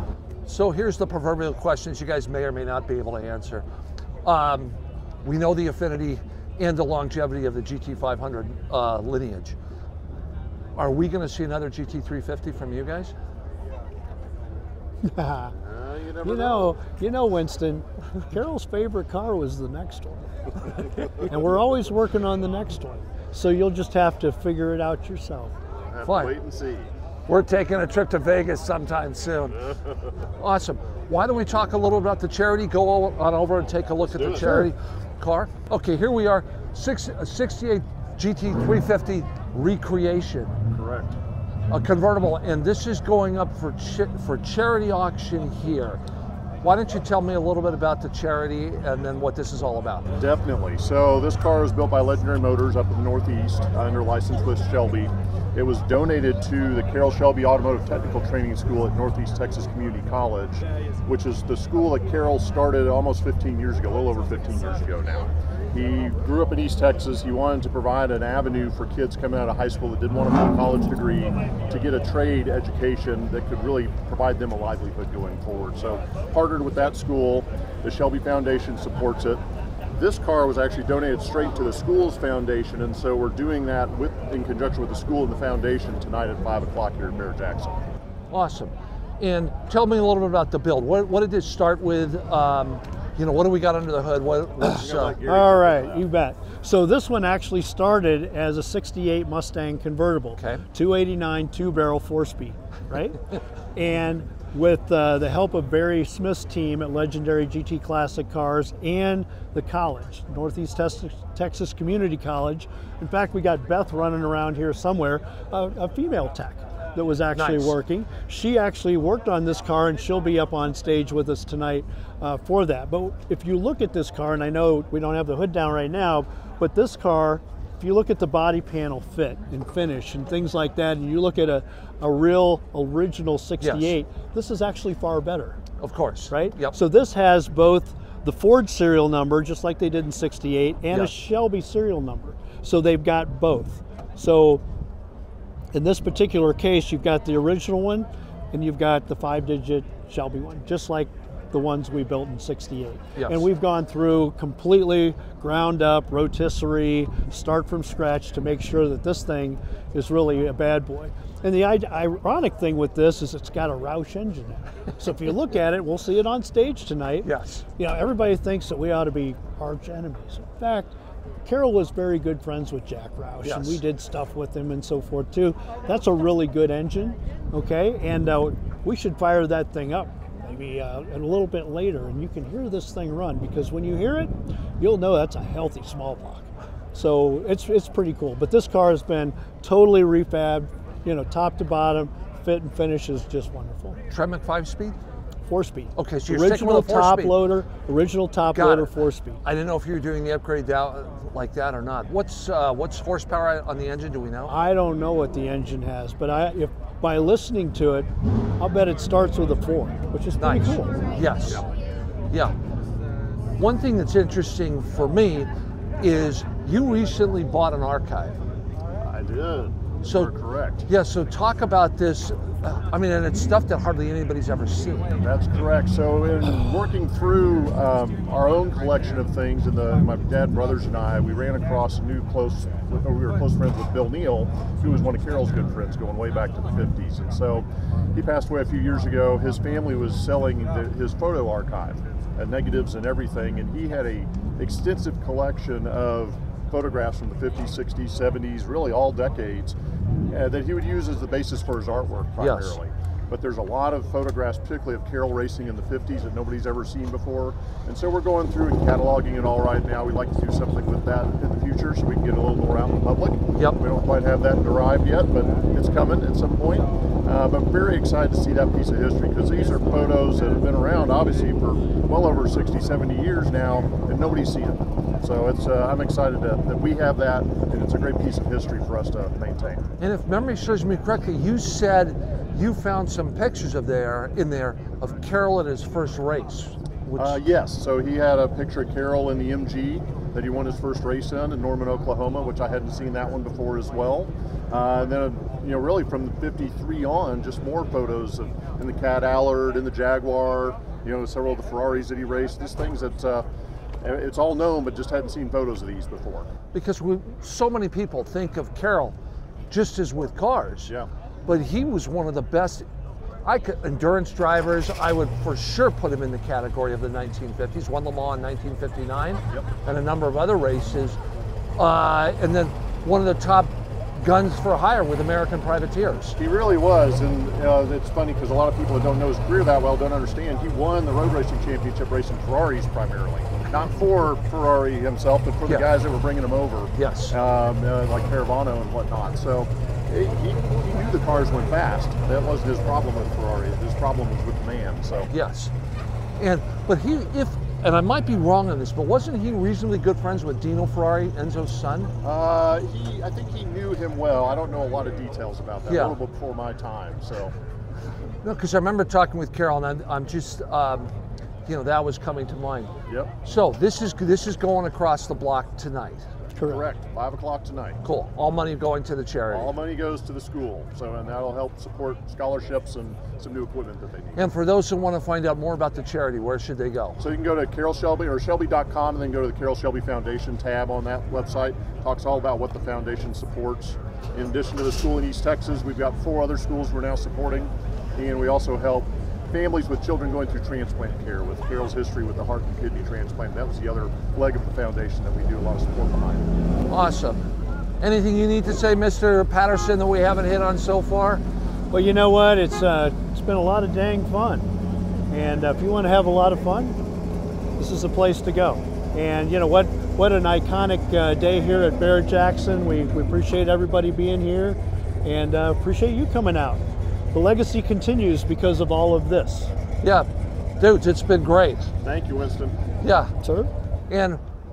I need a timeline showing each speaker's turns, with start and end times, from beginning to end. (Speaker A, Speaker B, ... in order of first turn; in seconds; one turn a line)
Speaker A: 0.5-3.6
Speaker A: 4.2-9.6
Speaker A: 10.8-13.1
Speaker B: 15.0-15.5
Speaker C: 15.5-16.8
Speaker B: 16.2-20.3
Speaker B: 21.2-25.5
Speaker C: 25.9-26.9
Speaker A: 26.0-26.3
Speaker A: 27.3-29.8
Speaker A: 30.4-40.5
Speaker C: 34.1-34.6
Speaker C: 40.7-41.1
Speaker A: 41.7-46.0
Speaker A: 46.6-50.1
Speaker C: 50.2-79.4
Speaker C: 79.9-87.9
Speaker A: 88.3-95.2
Speaker C: 94.6-96.1
Speaker B: 95.2-103.2
Speaker A: 100.4-100.6
Speaker B: 103.7-135.6
Speaker A: 117.3-117.7
Speaker A: 133.6-133.9
Speaker A: 135.8-136.7
Speaker B: 136.3-144.6
Speaker B: 145.7-170.9
Speaker A: 153.2-153.4
Speaker A: 167.2-167.6
Speaker B: 171.4-194.0
Speaker A: 173.4-173.8
Speaker A: 194.1-195.0
Speaker B: 195.5-199.4
Speaker A: 195.9-197.4
Speaker A: 198.5-204.5
Speaker B: 204.5-208.1
Speaker B: 208.6-211.1
Speaker A: 210.4-211.6
Speaker A: 213.6-218.4
Speaker C: 219.0-220.8
Speaker A: 220.9-225.2
Speaker C: 225.2-249.8
Speaker C: 250.3-279.8
Speaker A: 252.4-252.8
Speaker A: 280.0-287.4
Speaker C: 287.2-303.4
Speaker C: 304.0-306.5
Speaker A: 306.7-309.1
Speaker A: 309.7-310.9
Speaker A: 311.4-312.9
Speaker A: 313.4-321.2
Speaker A: 321.8-326.4
Speaker C: 326.4-345.3
Speaker A: 337.0-337.4
Speaker A: 345.3-345.7
Speaker A: 346.4-352.1
Speaker C: 352.2-357.5
Speaker A: 355.9-356.2
Speaker A: 358.4-361.1
Speaker A: 361.7-362.9
Speaker C: 363.1-363.3
Speaker A: 363.4-366.3
Speaker B: 366.5-366.9
Speaker C: 366.6-368.0
Speaker A: 368.0-369.7
Speaker C: 369.5-374.5
Speaker A: 374.4-377.2
Speaker C: 377.2-396.5
Speaker A: 396.9-397.4
Speaker A: 398.0-401.4
Speaker B: 401.9-404.7
Speaker B: 405.3-407.0
Speaker B: 407.8-419.7
Speaker A: 420.0-420.3
Speaker A: 420.8-421.9
Speaker C: 422.0-422.8
Speaker A: 423.0-423.3
Speaker B: 423.4-423.7
Speaker A: 424.1-424.4